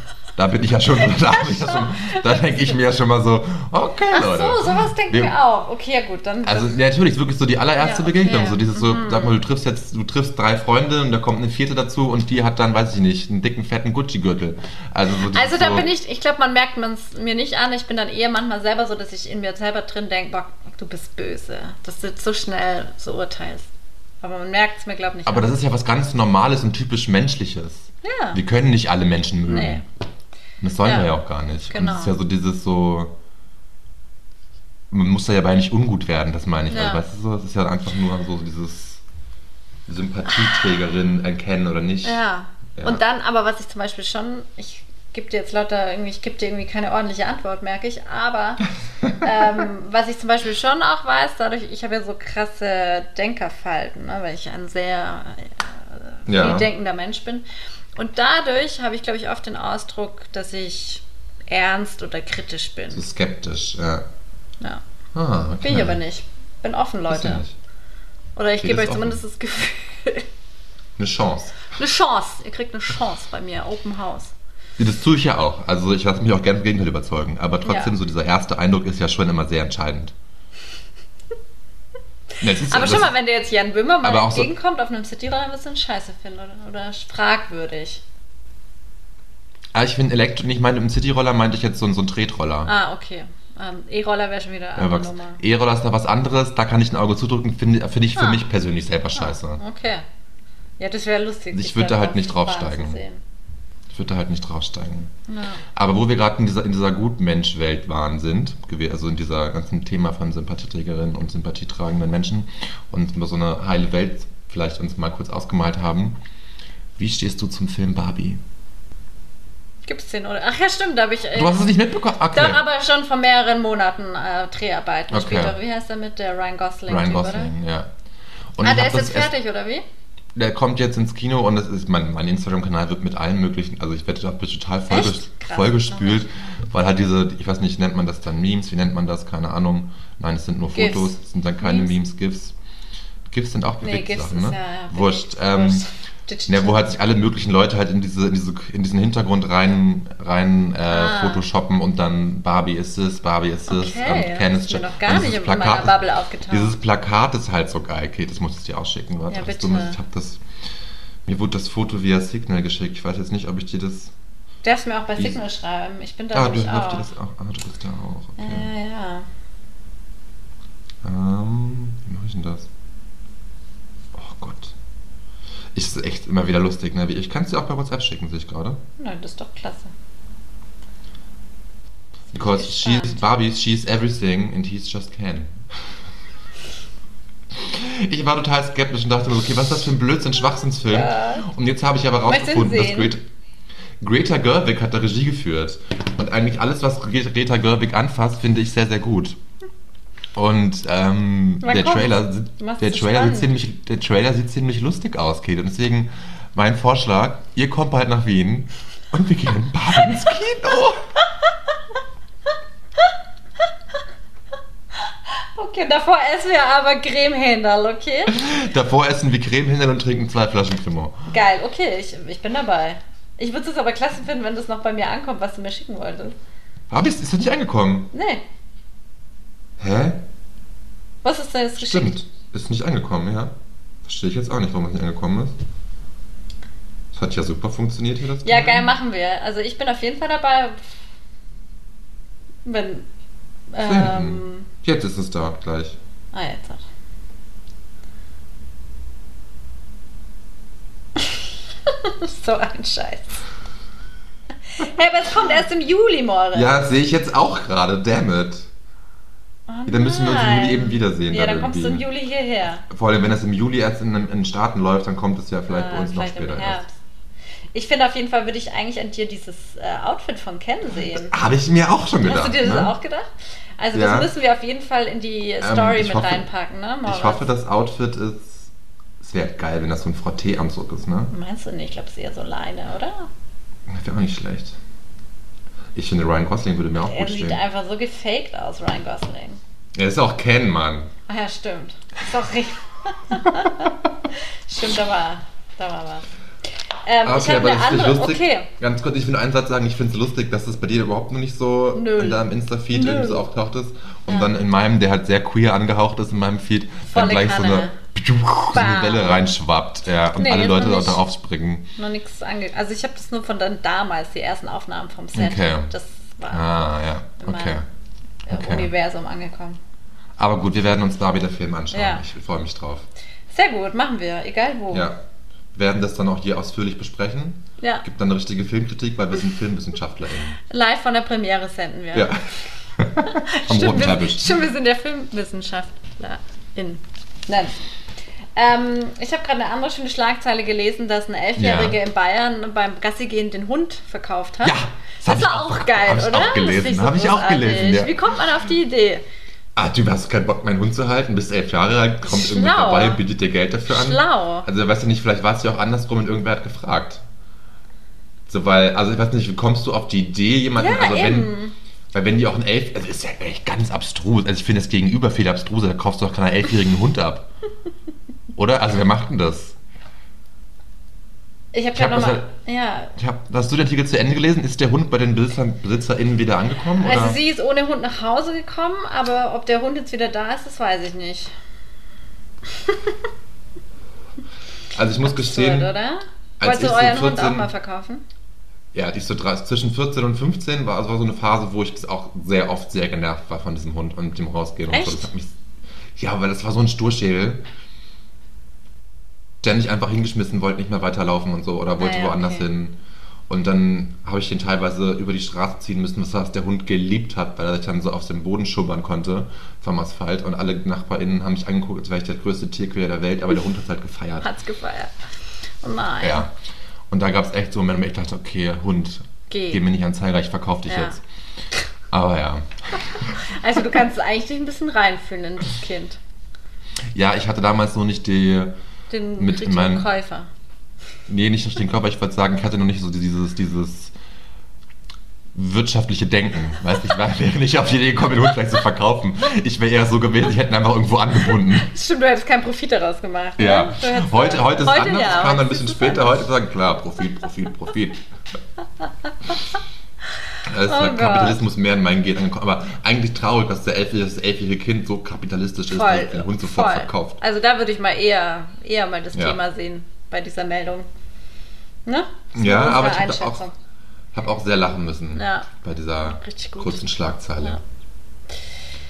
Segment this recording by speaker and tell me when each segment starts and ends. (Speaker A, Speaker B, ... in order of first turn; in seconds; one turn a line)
Speaker A: 0.4-5.3
Speaker B: 1.6-2.5
Speaker B: 4.1-6.7
Speaker A: 6.4-15.9
Speaker B: 7.8-9.4
Speaker B: 15.3-23.7
Speaker B: 24.2-25.5
Speaker A: 25.2-29.9
Speaker B: 28.0-28.4
Speaker B: 29.5-29.8
Speaker A: 30.6-33.1
Speaker B: 30.8-31.1
Speaker B: 31.7-32.1
Speaker A: 34.9-39.0
Speaker B: 36.7-37.0
Speaker A: 39.9-42.2
Speaker B: 42.0-57.4
Speaker A: 42.8-43.0
Speaker A: 56.3-56.7
Speaker B: 58.0-63.0
Speaker A: 62.9-64.0
Speaker A: 65.1-66.0
Speaker B: 65.6-67.4
Speaker A: 67.1-67.5
Speaker B: 68.4-70.3
Speaker A: 68.6-69.2
Speaker A: 71.0-71.6
Speaker B: 71.7-74.3
Speaker A: 74.8-80.1
Speaker B: 77.6-77.9
Speaker B: 82.4-88.0
Speaker A: 82.4-83.1
Speaker A: 84.0-84.5
Speaker A: 89.7-92.7
Speaker B: 92.6-95.4
Speaker A: 94.8-99.6
Speaker B: 98.1-98.5
Speaker B: 99.1-100.0
Speaker B: 100.8-103.2
Speaker A: 101.5-103.0
Speaker A: 103.9-105.1
Speaker B: 105.3-105.6
Speaker A: 105.7-116.2
Speaker A: 117.0-118.4
Speaker B: 119.9-121.7
Speaker A: 121.3-122.6
Speaker B: 122.3-127.5
Speaker A: 125.1-125.6
Speaker A: 126.9-127.9
Speaker A: 128.6-129.3
Speaker B: 128.6-129.8
Speaker A: 130.3-142.5
Speaker B: 134.9-136.2
Speaker B: 140.7-141.9
Speaker A: 143.3-145.8
Speaker B: 143.8-146.8
Speaker A: 146.5-156.0
Speaker B: 150.9-151.4
Speaker B: 153.7-156.7
Speaker A: 156.5-160.4
Speaker B: 159.3-160.0
Speaker A: 161.2-164.1
Speaker B: 164.6-167.1
Speaker A: 166.3-168.7
Speaker B: 168.4-169.3
Speaker A: 171.0-172.7
Speaker A: 174.1-174.7
Speaker A: 175.7-178.8
Speaker B: 179.0-179.9
Speaker A: 182.3-185.6
Speaker B: 182.4-183.2
Speaker A: 187.6-193.2
Speaker B: 190.9-191.5
Speaker B: 192.2-193.1
Speaker A: 194.0-199.4
Speaker A: 200.3-211.0
Speaker B: 201.6-203.5
Speaker B: 215.5-218.4
Speaker A: 218.3-221.2
Speaker B: 221.3-226.3
Speaker A: 226.9-228.1
Speaker B: 228.1-228.4
Speaker A: 229.8-230.2
Speaker B: 231.2-232.2
Speaker A: 231.8-235.5
Speaker A: 237.1-238.9
Speaker B: 238.4-240.8
Speaker B: 242.6-243.1
Speaker B: 243.7-244.7
Speaker A: 243.8-246.0
Speaker B: 246.3-246.8
Speaker B: 251.2-253.4
Speaker B: 254.7-256.7
Speaker A: 256.5-258.7
Speaker B: 259.7-262.9
Speaker A: 259.9-262.0
Speaker A: 262.9-266.8
Speaker B: 265.7-266.9
Speaker B: 267.7-271.3
Speaker A: 271.1-272.9
Speaker B: 272.2-273.3
Speaker B: 273.8-277.4
Speaker A: 273.9-274.3
Speaker A: 275.6-276.4
Speaker A: 277.0-281.3
Speaker B: 281.3-283.3
Speaker A: 283.9-284.8
Speaker A: 285.9-287.6
Speaker B: 287.0-289.6
Speaker A: 289.9-291.1
Speaker B: 291.3-294.0
Speaker B: 294.7-296.3
Speaker B: 297.0-298.7
Speaker A: 297.2-311.9
Speaker B: 301.9-303.4
Speaker B: 304.3-304.5
Speaker B: 307.1-308.0
Speaker B: 308.7-309.5
Speaker B: 310.3-311.2
Speaker B: 312.0-317.8
Speaker A: 315.3-315.9
Speaker A: 316.5-317.9
Speaker B: 318.5-319.8
Speaker A: 318.5-318.9
Speaker A: 320.4-323.1
Speaker B: 321.9-322.2
Speaker B: 323.5-325.1
Speaker A: 324.9-325.2
Speaker A: 325.7-330.6
Speaker B: 327.8-328.1
Speaker B: 330.7-332.4
Speaker A: 332.1-332.4
Speaker A: 332.9-334.6
Speaker B: 333.2-337.8
Speaker B: 338.6-349.2
Speaker A: 341.6-342.0
Speaker A: 344.6-348.2
Speaker A: 349.8-357.2
Speaker B: 352.2-353.2
Speaker B: 353.9-354.7
Speaker A: 358.5-361.5
Speaker B: 360.8-361.7
Speaker A: 362.1-367.5
Speaker A: 368.5-369.8
Speaker B: 371.7-373.1
Speaker A: 371.9-372.5
Speaker A: 373.1-377.4
Speaker B: 377.0-381.5
Speaker B: 382.9-383.1
Speaker A: 384.9-385.9
Speaker B: 385.2-388.2
Speaker A: 386.6-387.7
Speaker A: 388.9-395.5
Speaker B: 394.9-395.3
Speaker A: 396.2-397.6
Speaker A: 399.6-402.9
Speaker B: 402.0-402.7
Speaker A: 403.5-414.5
Speaker B: 414.4-415.1
Speaker B: 415.8-416.4
Speaker A: 416.2-416.5
Speaker A: 417.1-421.2
Speaker B: 419.5-419.8
Speaker B: 420.9-421.2
Speaker A: 422.1-423.4
Speaker B: 423.2-426.2
Speaker A: 427.1-428.7
Speaker B: 429.1-430.5
Speaker A: 429.4-430.1
Speaker A: 431.3-434.1
Speaker A: 435.5-441.9
Speaker B: 441.7-446.5
Speaker A: 443.6-448.2
Speaker A: 450.6-457.4
Speaker B: 450.9-451.6
Speaker B: 455.9-461.1
Speaker B: 462.1-463.7
Speaker A: 462.5-463.6
Speaker A: 464.3-467.8
Speaker B: 465.4-465.7
Speaker B: 466.2-467.0